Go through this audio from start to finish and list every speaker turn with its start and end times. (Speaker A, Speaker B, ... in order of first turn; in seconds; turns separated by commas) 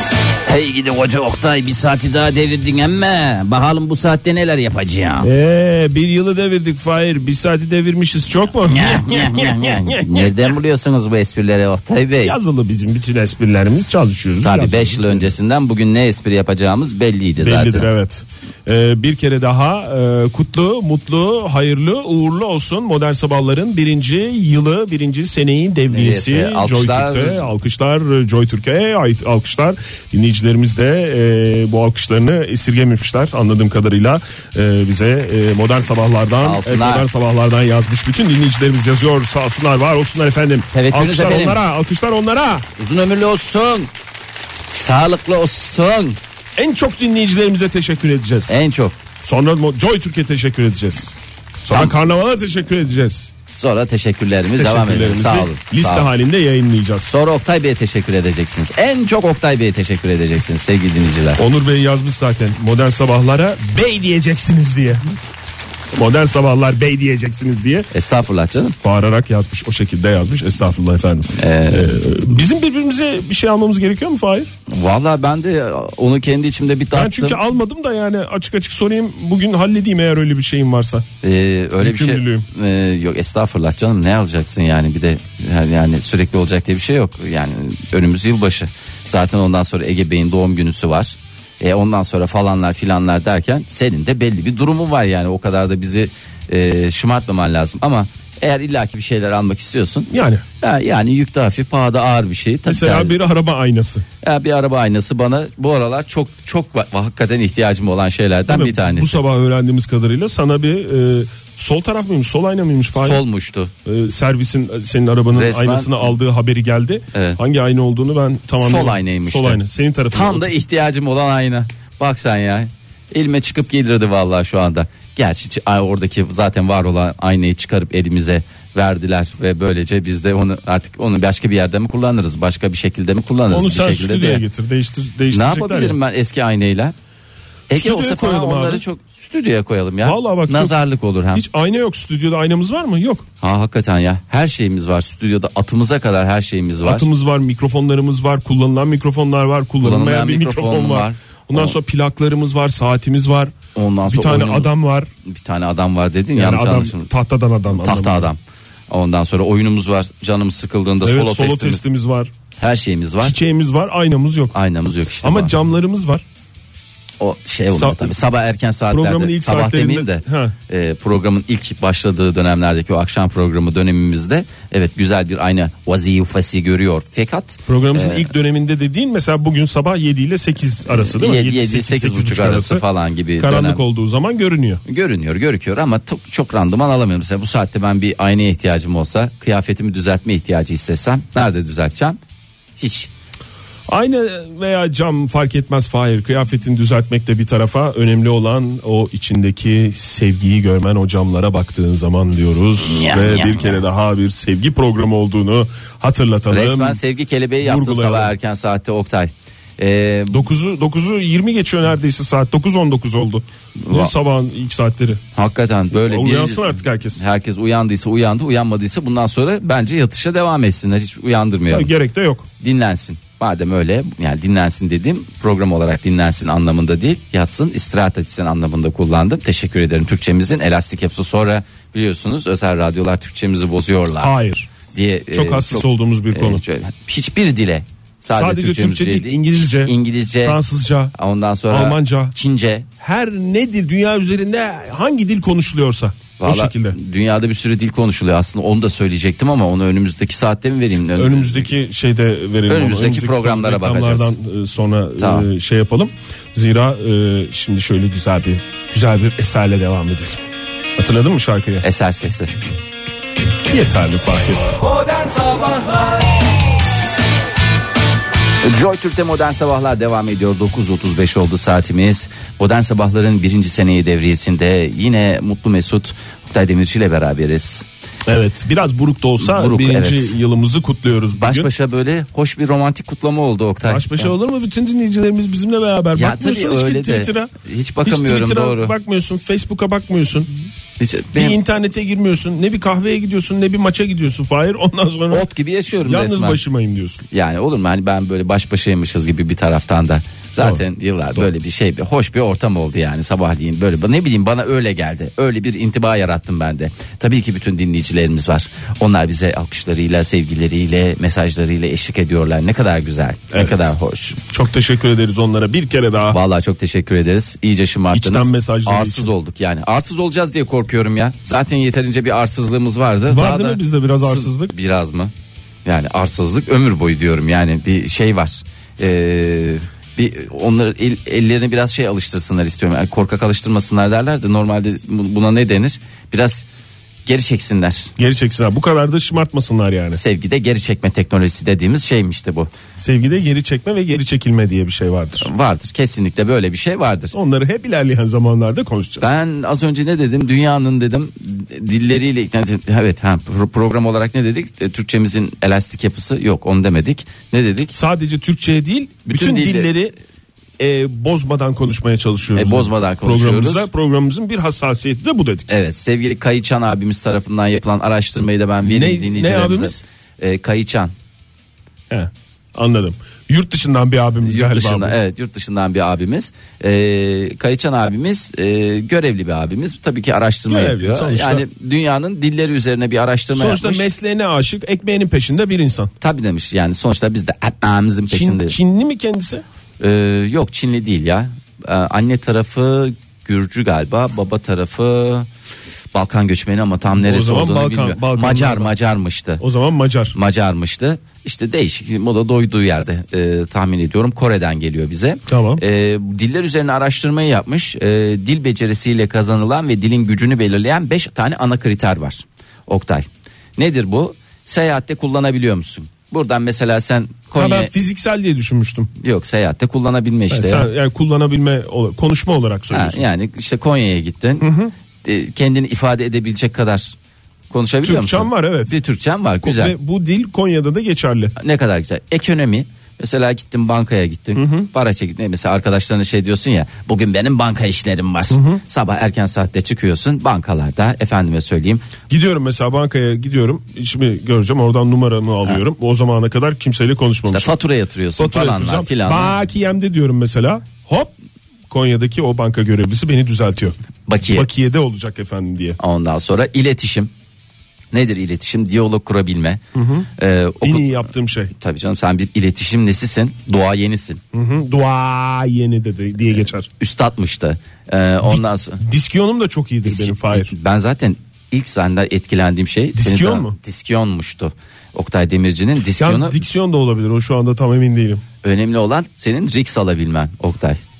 Speaker A: 0.5-5.3, Speaker B: 5.2-10.5, Speaker A: 8.6-12.3, Speaker B: 12.2-15.3, Speaker A: 14.4-17.9, Speaker B: 17.4-42.6, Speaker A: 25.9-27.5, Speaker A: 36.4-37.0, Speaker A: 40.7-41.6, Speaker A: 42.8-43.9, Speaker A: 44.7-46.2, Speaker B: 46.6-48.6, Speaker A: 48.5-49.0, Speaker B: 49.2-53.3, Speaker A: 51.7-52.0, Speaker A: 53.5-56.1, Speaker B: 54.5-57.1, Speaker A: 57.1-61.4, Speaker B: 61.4-65.0, Speaker B: 65.9-67.9, Speaker A: 67.9-68.8, Speaker B: 68.8-74.5, Speaker A: 71.3-72.1, Speaker A: 74.7-77.4, Speaker B: 76.9-81.0, Speaker A: 81.2-100.1, Speaker B: 81.8-82.5, Speaker B: 100.1-100.4, Speaker A: 100.6-103.2, Speaker B: 102.7-104.0, Speaker A: 104.2-109.2, Speaker B: 108.5-113.2, Speaker A: 113.0-113.7, Speaker B: 113.8-120.5, Speaker A: 115.3-116.1, Speaker A: 117.1-117.4, Speaker A: 118.6-119.6, Speaker A: 120.1-134.4, Speaker B: 133.5-136.0, Speaker A: 135.3-136.9, Speaker A: 137.7-141.4, Speaker B: 137.7-138.8, Speaker B: 140.0-140.7, Speaker B: 141.3-143.2, Speaker A: 143.4-147.1, Speaker B: 146.8-153.5, Speaker A: 149.8-151.7, Speaker A: 153.7-154.7, Speaker B: 154.1-155.1, Speaker A: 155.3-157.1, Speaker B: 156.3-158.3, Speaker A: 157.7-161.8, Speaker B: 161.0-162.3, Speaker A: 162.6-163.3, Speaker B: 163.2-164.5, Speaker A: 164.5-165.5, Speaker B: 165.2-166.2, Speaker A: 167.2-178.3, Speaker B: 167.7-168.2, Speaker B: 168.9-170.5, Speaker B: 177.7-182.8, Speaker A: 180.9-183.8, Speaker B: 183.4-184.8, Speaker A: 184.8-192.2, Speaker A: 192.8-193.1, Speaker B: 193.9-207.0, Speaker A: 202.8-203.8, Speaker A: 206.5-210.4, Speaker B: 207.6-208.3, Speaker B: 210.3-215.2, Speaker A: 213.8-214.1, Speaker A: 215.3-221.9, Speaker B: 216.1-217.2, Speaker B: 221.7-222.5, Speaker A: 222.6-234.3, Speaker B: 234.2-234.7, Speaker A: 234.9-240.6, Speaker B: 235.3-236.6, Speaker B: 238.3-239.9, Speaker B: 240.4-241.1, Speaker A: 241.1-242.9, Speaker B: 241.7-242.3, Speaker B: 243.0-247.0, Speaker A: 246.4-251.7, Speaker B: 251.1-260.4, Speaker A: 252.7-254.3, Speaker A: 255.2-255.5, Speaker B: 261.0-261.8, Speaker A: 261.8-262.5, Speaker B: 263.7-264.7, Speaker A: 268.6-277.8, Speaker B: 278.3-281.7, Speaker A: 279.4-280.3, Speaker A: 281.4-284.3, Speaker B: 283.8-287.5, Speaker A: 286.1-288.9, Speaker B: 288.0-290.5, Speaker A: 291.0-291.6, Speaker B: 291.3-295.5, Speaker A: 295.3-296.6, Speaker B: 296.0-297.2, Speaker A: 297.3-314.4, Speaker B: 300.6-300.8, Speaker B: 313.5-313.9, Speaker B: 314.5-316.4, Speaker A: 316.3-325.3, Speaker B: 318.1-319.3, Speaker B: 323.3-324.7, Speaker A: 325.8-336.6, Speaker A: 337.2-338.1, Speaker B: 338.2-340.2, Speaker A: 340.1-342.7, Speaker B: 343.0-345.5, Speaker A: 345.4-347.3, Speaker B: 347.3-349.2, Speaker A: 349.2-357.9, Speaker B: 357.9-360.1, Speaker A: 359.2-359.9, Speaker B: 360.8-365.7, Speaker A: 362.5-363.9, Speaker A: 365.7-371.1, Speaker B: 368.8-370.0, Speaker B: 372.1-375.1, Speaker A: 374.4-384.1, Speaker B: 380.7-381.6, Speaker B: 383.5-386.1, Speaker A: 386.2-388.8, Speaker B: 388.3-389.6, Speaker A: 390.0-395.5, Speaker A: 396.1-399.6, Speaker B: 397.1-398.9, Speaker B: 399.6-400.4, Speaker A: 400.3-417.9, Speaker B: 405.5-405.8, Speaker B: 417.5-419.1, Speaker A: 419.2-420.9, Speaker B: 420.5-423.3, Speaker A: 422.9-424.7, Speaker B: 424.6-424.9, Speaker A: 425.2-427.1, Speaker A: 427.7-429.9, Speaker B: 428.0-428.9, Speaker B: 429.6-431.5, Speaker A: 431.6-442.0, Speaker B: 434.5-434.9, Speaker B: 438.5-438.8, Speaker B: 442.3-447.7, Speaker A: 447.5-449.6, Speaker B: 448.4-451.3, Speaker B: 451.9-453.9, Speaker A: 454.2-454.7, Speaker B: 454.5-456.0, Speaker A: 456.0-457.3, Speaker A: 458.1-459.8, Speaker B: 459.9-460.3, Speaker A: 460.4-461.1, Speaker B: 460.8-461.7, Speaker A: 461.8-464.4, Speaker B: 464.5-466.9, Speaker A: 467.0-469.0, Speaker B: 468.4-470.7, Speaker A: 470.0-476.6, Speaker B: 473.1-473.8, Speaker B: 476.1-478.4, Speaker A: 478.6-481.0